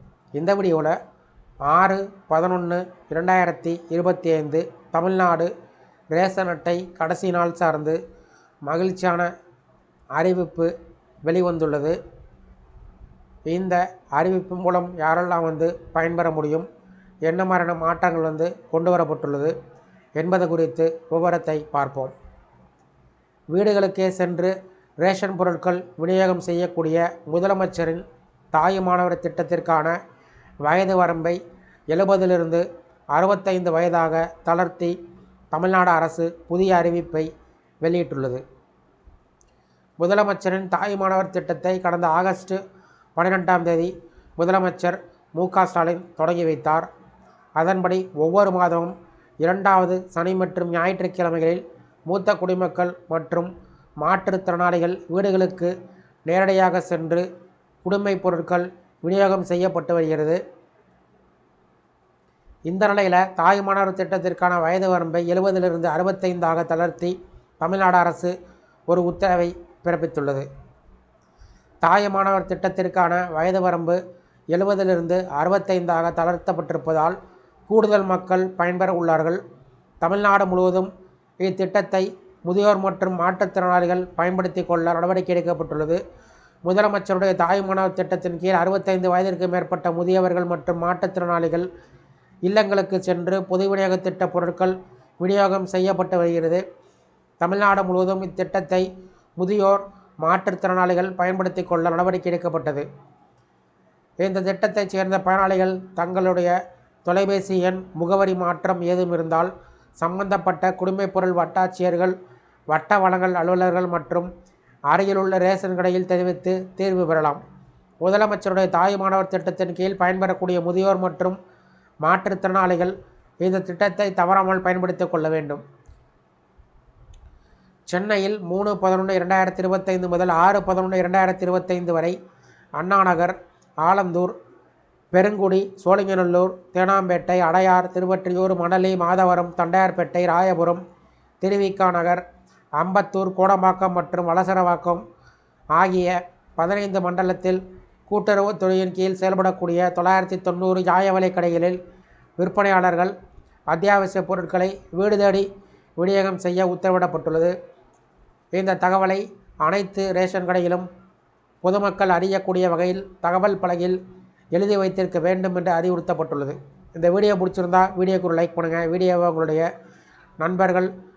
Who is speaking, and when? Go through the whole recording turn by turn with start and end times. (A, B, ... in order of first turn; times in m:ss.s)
0:00.3-0:00.9 A
0:01.6-0:05.5 A
0:06.1-0:08.0 A
0:08.6-0:09.3 A
0:10.1-0:10.7 A
0:11.2-0:12.0 A
0:13.5-0:16.7 A
0:17.2-0:19.5 A
0:20.2-0:22.1 A
0:23.5-0:30.0 A
0:30.6-0:31.4 A
0:31.9-0:34.9 A
0:35.5-0:37.3 A
0:37.8-0:38.4 A
0:40.0-0:42.6 A
0:43.2-0:46.9 A
0:47.6-0:55.7 A
0:56.3-0:57.2 A
0:57.8-1:00.4 A
1:02.7-1:08.3 A
1:08.9-1:10.4 A
1:11.8-1:14.0 A
1:14.5-1:17.2 A
1:17.7-1:19.4 A
1:20.0-1:20.9 A
1:21.4-1:26.0 A
1:26.6-1:31.7 A
1:32.4-1:36.6 A
1:37.4-1:38.9 A
1:39.4-1:42.8 A
1:44.2-1:46.5 A
1:47.0-1:52.1 A
1:52.7-1:54.3 A
1:54.9-1:57.4 A
1:58.0-2:01.4 A
2:02.0-2:05.6 A
2:07.9-2:12.1 A
2:12.8-2:14.3 A
2:15.1-2:20.8 A
2:21.4-2:22.2 A
2:22.8-2:25.0 A
2:25.8-2:31.8 A
2:32.4-2:33.1 A
2:33.7-2:35.4 A
2:36.0-2:37.5 A
2:38.5-2:40.9 A
2:41.6-2:44.0 A
2:44.5-2:49.7 A
2:50.4-2:50.9 A